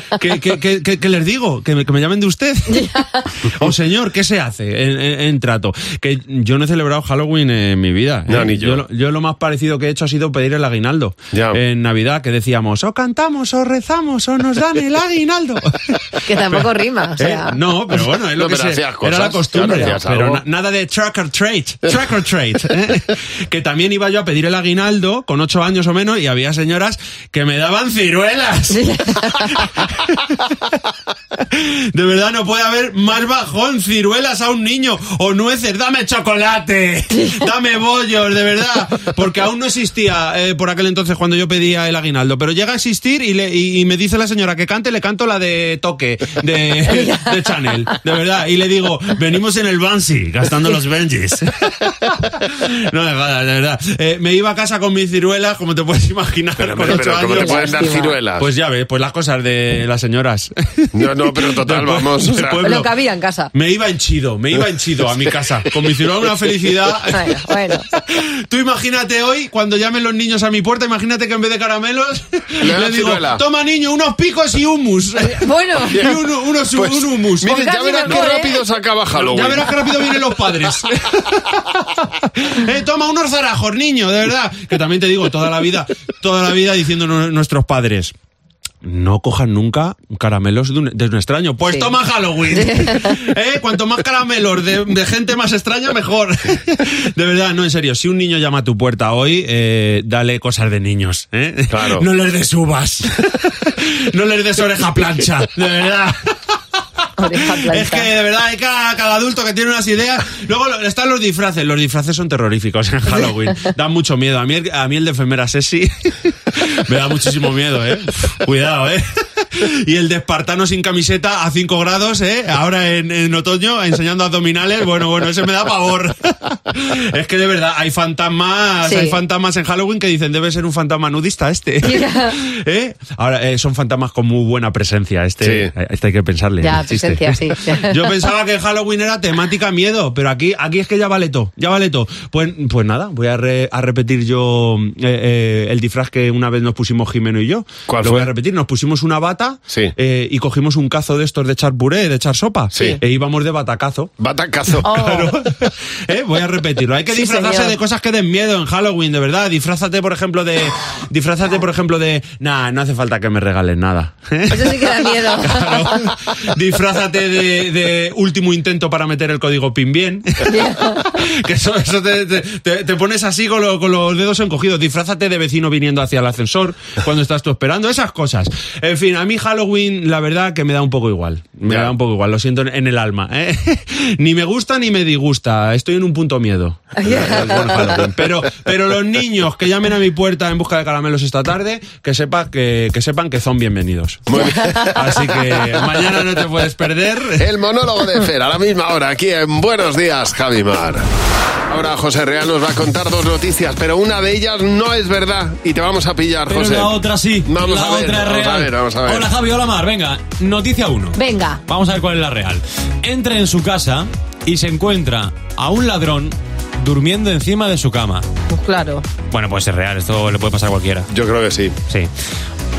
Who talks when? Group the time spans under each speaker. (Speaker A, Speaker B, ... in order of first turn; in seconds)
Speaker A: 0.2-2.9, 3.5-16.7, 17.2-30.5, 31.5-62.9, 63.5-67.4, 67.9-78.3, 79.1-88.1, 88.8-106.2, 107.4-119.0, 119.6-154.1, 154.8-197.4
Speaker B: 2.7-3.2, 16.2-17.6, 28.7-29.7, 37.1-37.5, 46.9-47.9, 56.9-58.1, 62.6-63.5, 67.1-67.9, 75.2-76.1, 77.4-78.6, 91.7-91.9, 92.5-93.2, 107.2-108.1, 128.8-129.2, 131.8-132.3, 136.6-138.1, 154.8-155.4, 157.1-157.8, 164.5-166.0, 170.4-171.2, 186.9-188.0, 194.4-194.9, 211.2-211.6, 218.5-219.0
Speaker C: 8.3-8.8, 11.3-11.6, 18.4-20.4, 56.6-58.5, 60.9-62.6, 72.6-73.4, 76.7-79.9, 101.7-102.0, 135.4-135.7, 147.9-148.3, 154.2-154.9, 194.3-195.6, 197.4-201.1, 201.7-209.3, 221.1-221.7
Speaker D: 206.5-218.2, 219.3-221.1